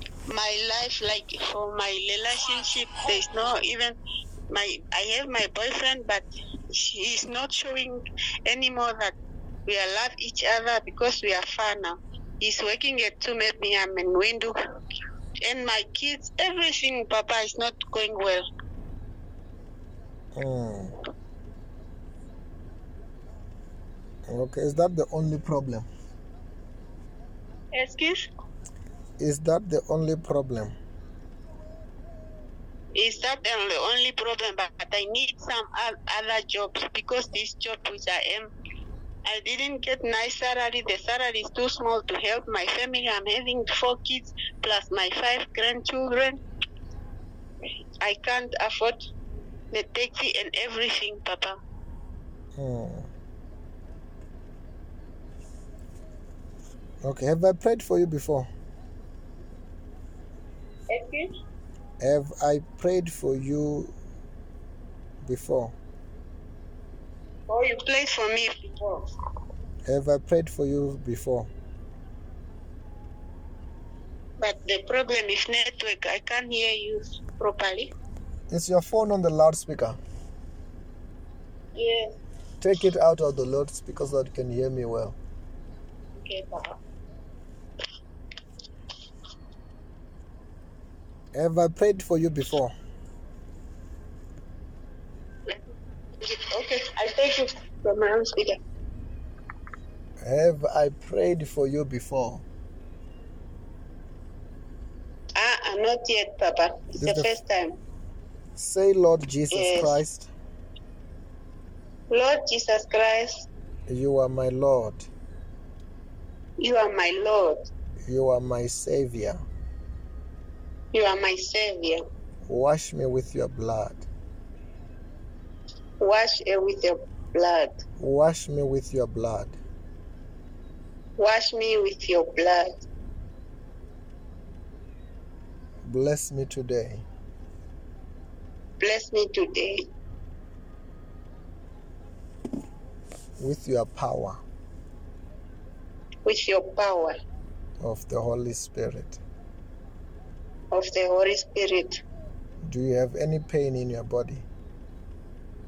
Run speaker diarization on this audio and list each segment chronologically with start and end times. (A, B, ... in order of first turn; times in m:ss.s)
0:00.3-0:04.0 A
0:04.5-0:09.2 A
0:09.7-0:14.6 A
0:15.4-0:18.4 A
0:20.4-0:21.0 B
0:24.3-0:25.9 B
0:27.7-0:28.3 A
0:29.2-0:30.8 B
0:32.9-0:38.5 A
0:39.3-0:46.4 A
0:48.0-0:49.0 A
0:49.7-0:51.6 A
0:52.6-0:53.1 B
0:57.0-0:58.5 B
1:00.9-1:01.3 A
1:02.0-1:03.9 B
1:05.2-1:05.8 B
1:07.5-1:09.1 A
1:09.9-1:11.5 B
1:14.4-1:17.9 A
1:18.5-1:20.0 B
1:21.8-1:22.2 A
1:22.6-1:25.2 B
1:26.2-1:26.8 A
1:31.3-1:32.7 B
1:36.2-1:38.6 A
1:40.2-1:42.4 B
1:45.4-1:47.8 A
1:47.0-1:47.4 B
1:48.6-1:50.3 B
1:49.5-1:50.0 A
1:52.1-1:53.5 A
1:53.9-1:55.0 B
1:56.6-1:57.6 A
1:58.1-1:59.4 B
2:00.9-2:02.0 A
2:02.5-2:04.1 B
2:06.0-2:07.7 A
2:08.0-2:09.6 B
2:11.2-2:12.8 A
2:15.8-2:17.0 B
2:18.8-2:19.9 A
2:23.4-2:24.4 B
2:26.2-2:27.2 A
2:27.8-2:29.2 B
2:30.7-2:32.0 A
2:32.6-2:34.5 B